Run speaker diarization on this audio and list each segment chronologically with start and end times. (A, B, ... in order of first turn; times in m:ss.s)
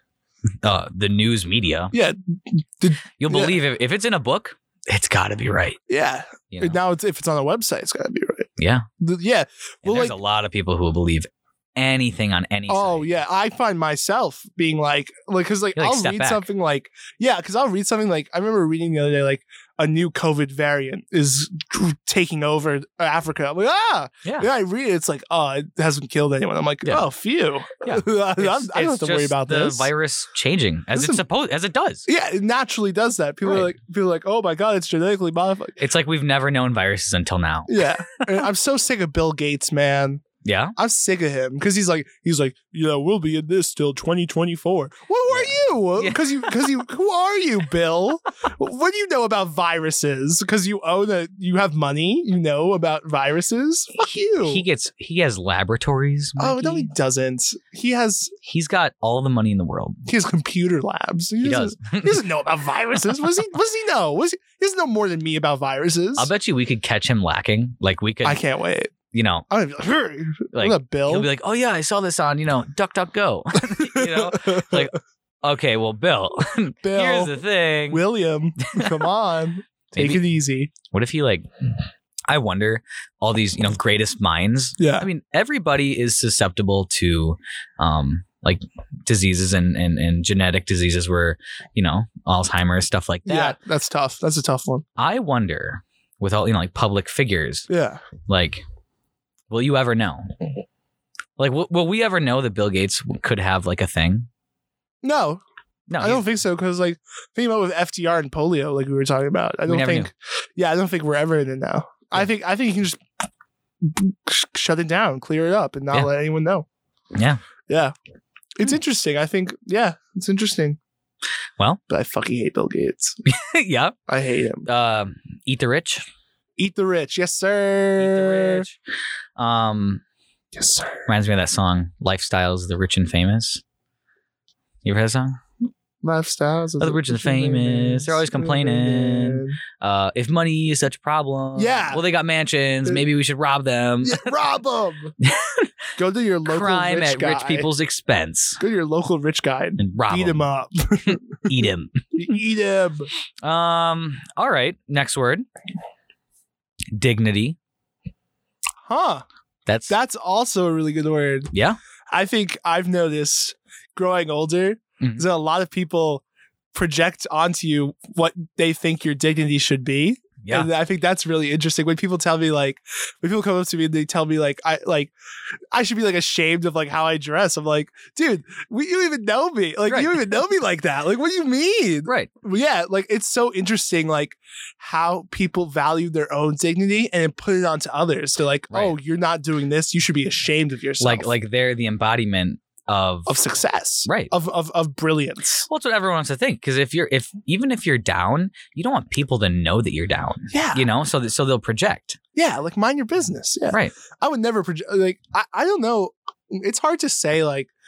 0:00.6-0:02.0 A
0:01.9-0:03.6 B
0:03.2-0:05.8 A
0:05.9-0:08.5 B
0:06.5-0:06.8 A
0:08.6-0:08.9 A
0:09.0-0:10.2 B
0:09.8-0:13.1 A
0:12.7-0:29.9 B
0:15.8-0:16.5 A
0:27.8-0:32.1 A
0:30.9-0:31.2 B
0:32.1-0:35.8 B
0:33.4-0:33.7 A
0:35.8-0:38.4 A
0:37.7-0:40.2 B
0:40.4-0:40.8 A
0:40.8-0:54.6 B
0:45.3-0:46.5 A
0:54.4-0:56.9 A
0:56.4-0:58.3 B
0:58.4-1:00.0 A
1:00.1-1:06.3 B
1:01.4-1:02.2 A
1:06.2-1:08.4 A
1:08.2-1:08.9 B
1:09.1-1:09.5 A
1:09.5-1:11.3 B
1:10.5-1:18.0 A
1:13.7-1:14.9 B
1:16.8-1:17.4 B
1:17.9-1:20.7 B
1:18.6-1:19.1 A
1:19.9-1:20.2 A
1:20.9-1:21.5 A
1:22.3-1:33.6 A
1:24.8-1:25.1 B
1:33.3-1:34.9 B
1:35.0-1:37.7 A
1:37.7-1:38.0 B
1:38.3-1:38.6 A
1:39.5-1:40.3 A
1:41.4-1:44.3 A
1:45.0-1:45.4 B
1:45.9-1:46.3 A
1:46.0-1:53.0 B
1:49.7-1:50.1 A
1:53.8-1:56.7 B
1:57.2-1:57.4 A
1:57.7-1:57.9 B
1:58.6-2:00.8 B
2:01.9-2:03.2 B
2:03.3-2:04.0 A
2:04.1-2:04.7 B
2:04.6-2:06.1 A
2:06.6-2:08.7 B
2:08.0-2:08.8 A
2:09.4-2:10.0 A
2:10.5-2:11.1 B
2:11.1-2:13.6 A
2:14.8-2:15.4 A
2:16.0-2:19.6 B
2:16.8-2:24.3 A
2:21.6-2:22.0 B
2:24.0-2:25.1 B
2:25.2-2:25.7 A
2:26.0-2:27.7 B
2:26.4-2:28.6 A
2:28.6-2:31.4 B
2:29.8-2:30.5 A
2:31.1-2:32.3 A
2:32.2-2:33.1 B
2:33.4-2:35.5 A
2:36.9-2:37.6 A
2:38.9-2:39.2 B
2:39.7-2:40.0 A
2:39.9-2:41.5 B
2:41.5-2:41.8 A
2:42.1-2:46.2 B
2:46.7-2:55.1 B
2:50.4-2:50.7 A
2:55.7-3:11.3 B
2:59.9-3:00.2 A
3:08.7-3:09.0 A
3:11.0-3:13.4 A
3:13.3-3:15.7 B
3:14.0-3:14.3 A
3:15.7-3:22.2 A
3:20.5-3:20.9 B
3:22.4-3:27.7 B